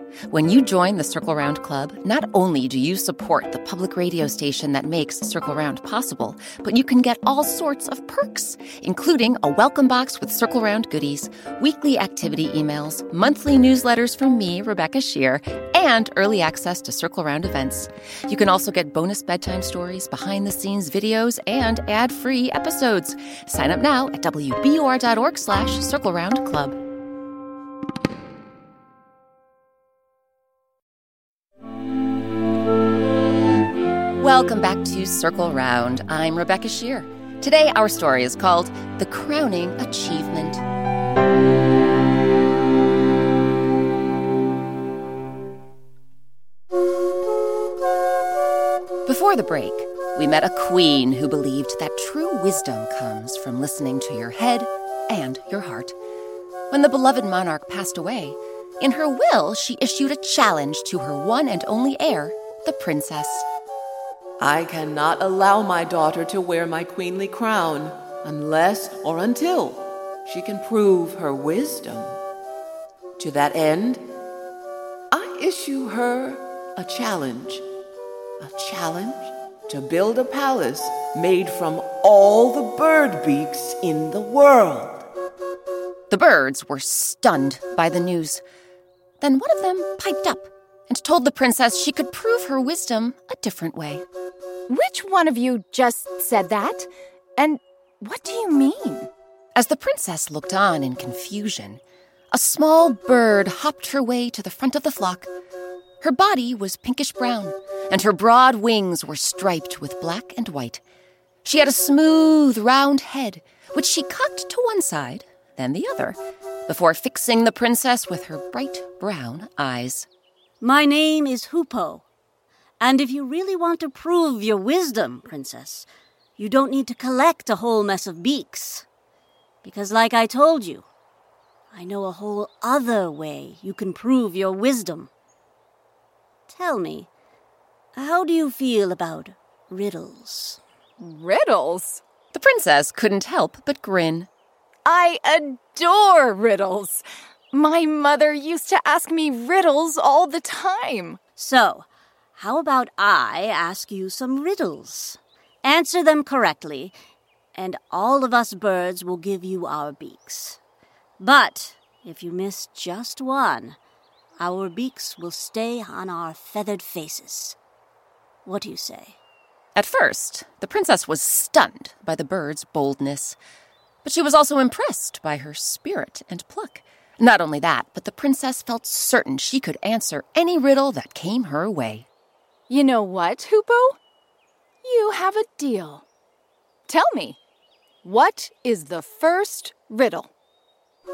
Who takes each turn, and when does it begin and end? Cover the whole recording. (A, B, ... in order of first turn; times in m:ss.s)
0:00.3-0:26.8 A
0:34.2-0:40.6 A
0:49.1-0:56.0 A
0:56.7-1:03.5 A
1:04.4-1:12.2 B
1:13.2-1:14.0 B
1:15.1-1:17.6 B
1:18.4-1:25.1 B
1:26.1-1:28.4 A
1:29.2-1:34.0 A
1:34.7-1:39.1 C
1:39.6-1:41.8 A
1:42.3-1:45.3 A
1:46.0-1:50.8 A
1:51.4-2:00.1 A
2:00.6-2:02.0 D
2:02.8-2:05.9 D
2:06.4-2:08.9 D
2:09.6-2:10.9 D
2:11.7-2:15.1 D
2:16.5-2:17.1 D
2:18.0-2:20.6 D
2:21.0-2:22.0 C
2:22.3-2:24.3 A
2:24.9-2:31.2 C
2:31.4-2:37.0 D
2:37.6-2:40.6 D
2:41.2-2:43.8 D
2:44.4-2:47.6 D
2:48.4-2:49.2 D
2:49.8-2:53.4 A
2:54.0-3:02.1 A
3:02.7-3:04.0 C
3:04.8-3:06.0 C
3:06.9-3:07.4 C
3:08.0-3:10.3 C